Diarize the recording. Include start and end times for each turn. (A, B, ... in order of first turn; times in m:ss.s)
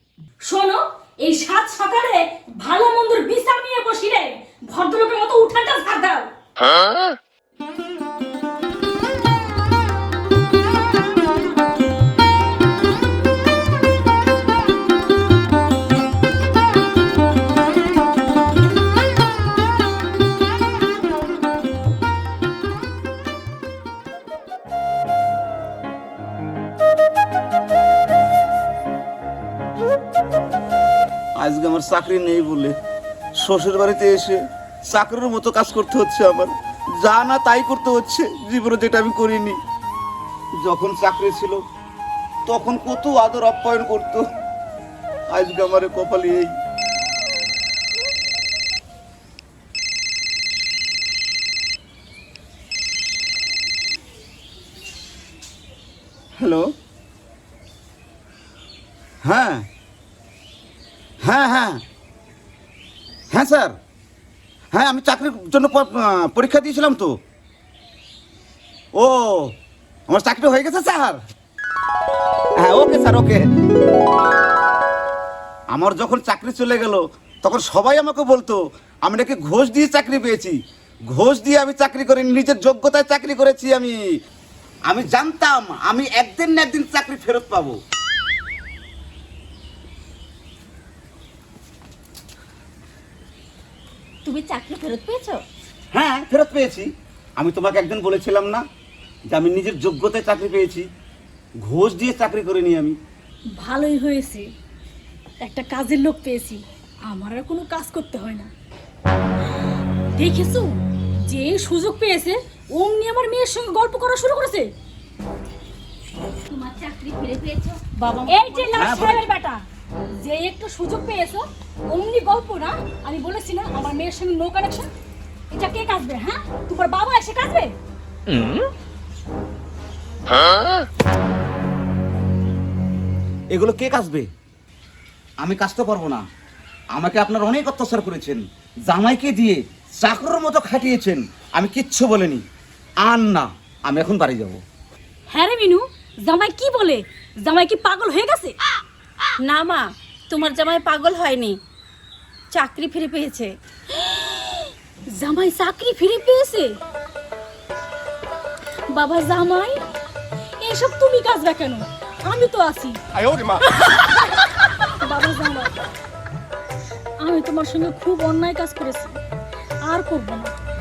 0:00.4-0:06.2 A
0:31.4-0:32.7 B
0:33.4-0:34.4 B
0:34.9-0:39.6 B
0:40.6-0:41.6 B
0:42.5-0:44.2 B
0:45.3-0:46.5 B
0:56.4-0:56.7 B
0:59.2-0:59.6 B
1:01.2-1:01.8 B
1:03.3-1:03.7 B
1:04.7-1:07.1 B
1:09.0-1:09.5 B
1:10.1-1:11.2 B
1:12.6-1:13.5 B
1:15.7-1:20.6 B
1:21.1-1:24.0 B
1:24.9-1:27.8 B
1:34.2-1:35.4 C
1:35.9-1:38.6 B
1:39.3-1:40.8 B
1:41.6-1:43.0 B
1:43.6-1:44.5 A
1:45.4-1:48.5 A
1:50.2-1:54.7 A
1:56.5-1:58.9 C
1:58.3-1:59.6 A
1:58.8-1:59.2 B
2:00.2-2:04.9 A
2:05.5-2:07.7 A
2:13.5-2:14.3 B
2:15.4-2:16.2 B
2:16.9-2:22.4 B
2:23.0-2:24.6 B
2:25.3-2:28.6 A
2:29.4-2:31.6 C
2:32.5-2:33.6 C
2:34.0-2:34.5 A
2:35.1-2:36.8 A
2:38.9-2:39.8 A
2:40.6-2:43.6 A
2:45.0-2:45.8 A
2:47.2-2:49.2 A
2:49.8-2:50.5 A